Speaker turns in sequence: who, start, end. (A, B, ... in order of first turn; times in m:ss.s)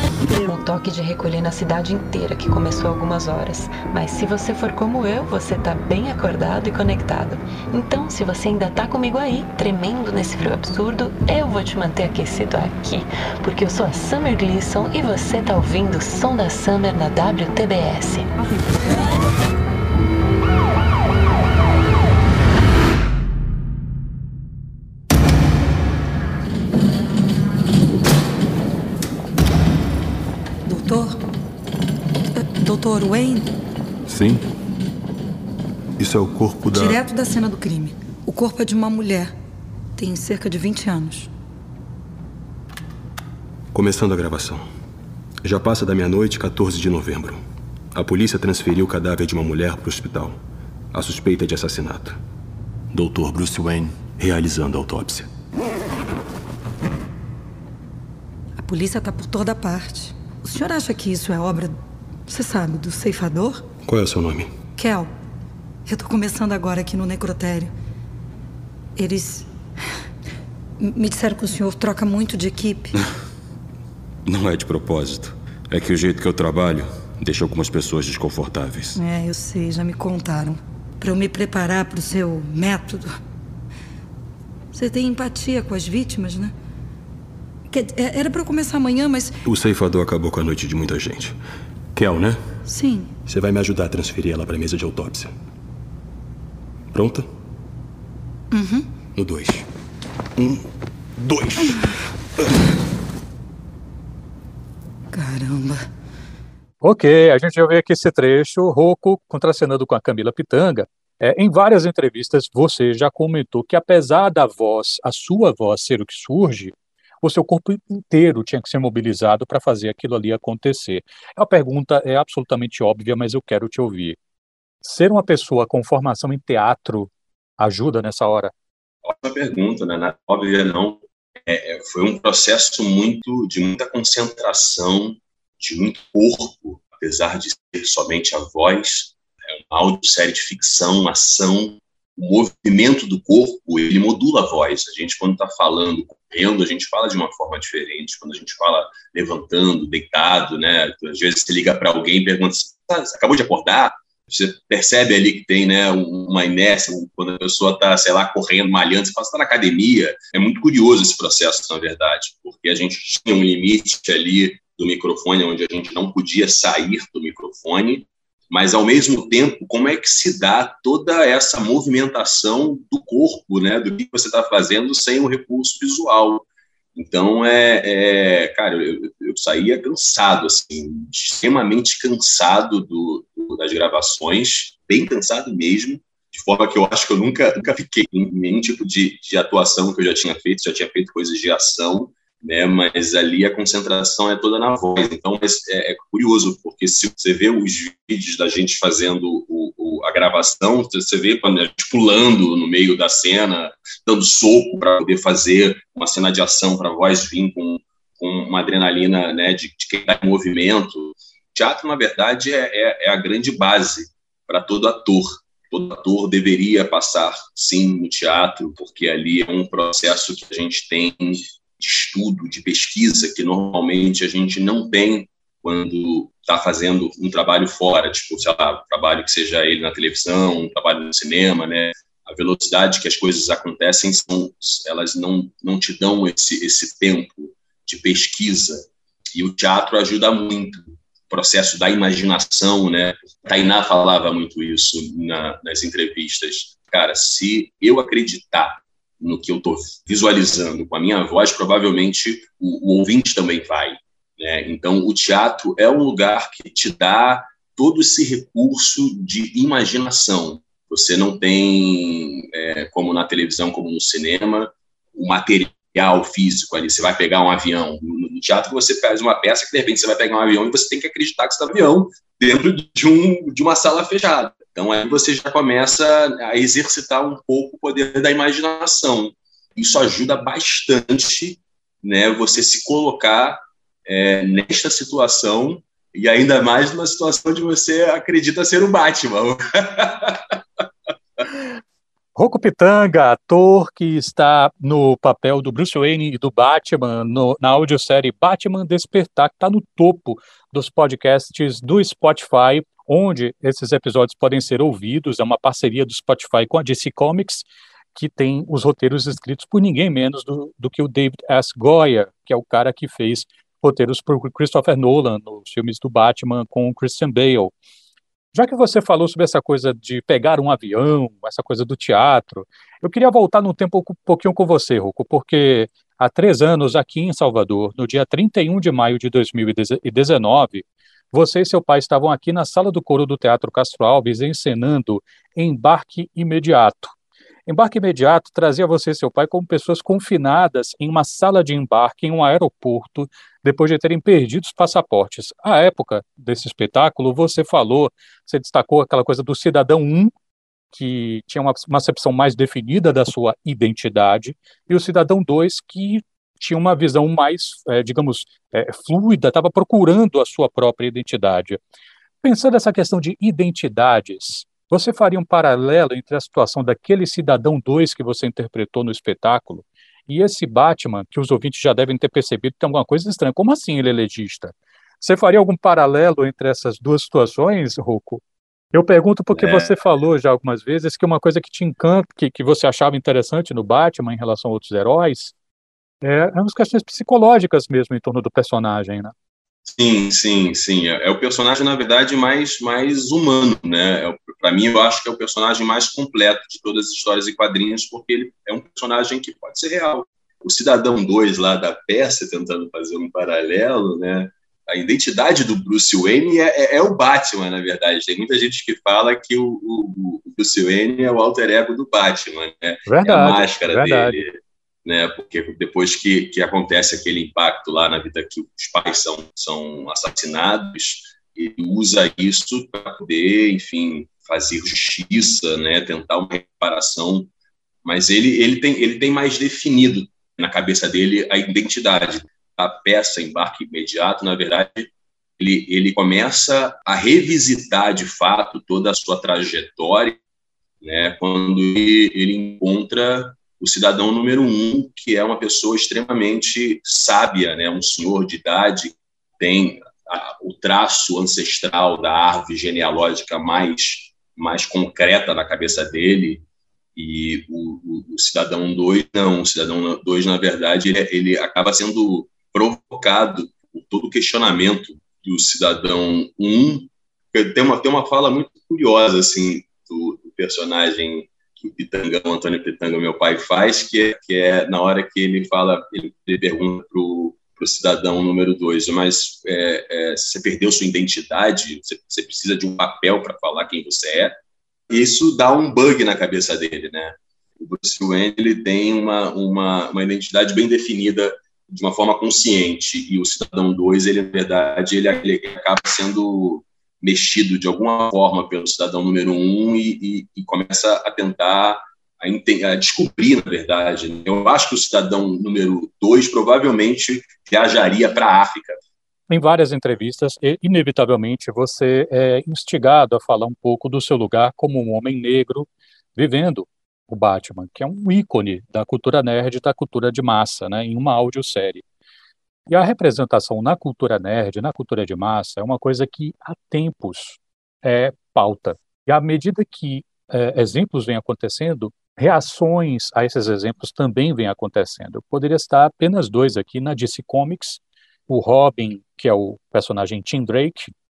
0:00.4-0:18.3 A
0:30.6-0:31.1 B
0:32.4-0:33.5 B
0:34.1-0:34.4 C
0:36.0-0:37.0 C
0:36.7-0:39.3 B
0:40.0-0:41.3 B
0:43.7-0:44.6 C
0:45.4-0:47.4 C
0:47.9-0:50.4 C
0:50.9-0:52.2 C
0:52.9-0:55.3 C
0:58.6-1:01.7 B
1:02.3-1:03.6 B
1:03.8-1:04.5 C
1:04.8-1:05.1 B
1:05.8-1:07.7 B
1:09.0-1:09.5 B
1:10.8-1:12.9 B
1:14.3-1:19.0 C
1:19.0-1:23.1 B
1:24.7-1:26.5 B
1:27.7-1:29.4 B
1:29.4-1:31.4 C
1:31.9-1:32.4 C
1:32.6-1:33.1 B
1:33.2-1:35.3 C
1:36.9-1:37.3 C
1:38.5-1:38.8 B
1:39.2-1:39.6 C
1:40.4-1:40.6 C
1:41.2-1:41.8 C
1:45.1-1:45.8 B
1:46.8-2:04.2 D
2:04.8-2:08.5 D
2:09.0-2:19.2 E
2:19.7-4:50.6 E
4:52.4-5:17.7 D
5:18.5-5:37.1 D
5:37.6-5:50.3 D
5:50.9-6:01.8 D
6:02.4-6:18.4 D
6:18.9-6:25.5 D
6:19.5-6:19.9 E
6:26.2-6:29.3 D
6:29.9-6:54.5 E
6:53.1-6:54.4 D
6:55.0-7:07.5 E
7:08.0-7:20.4 E
7:21.0-7:36.6 E
7:37.2-8:04.6 E
8:05.1-8:29.0 E
8:29.5-8:42.0 D
8:42.9-9:01.1 D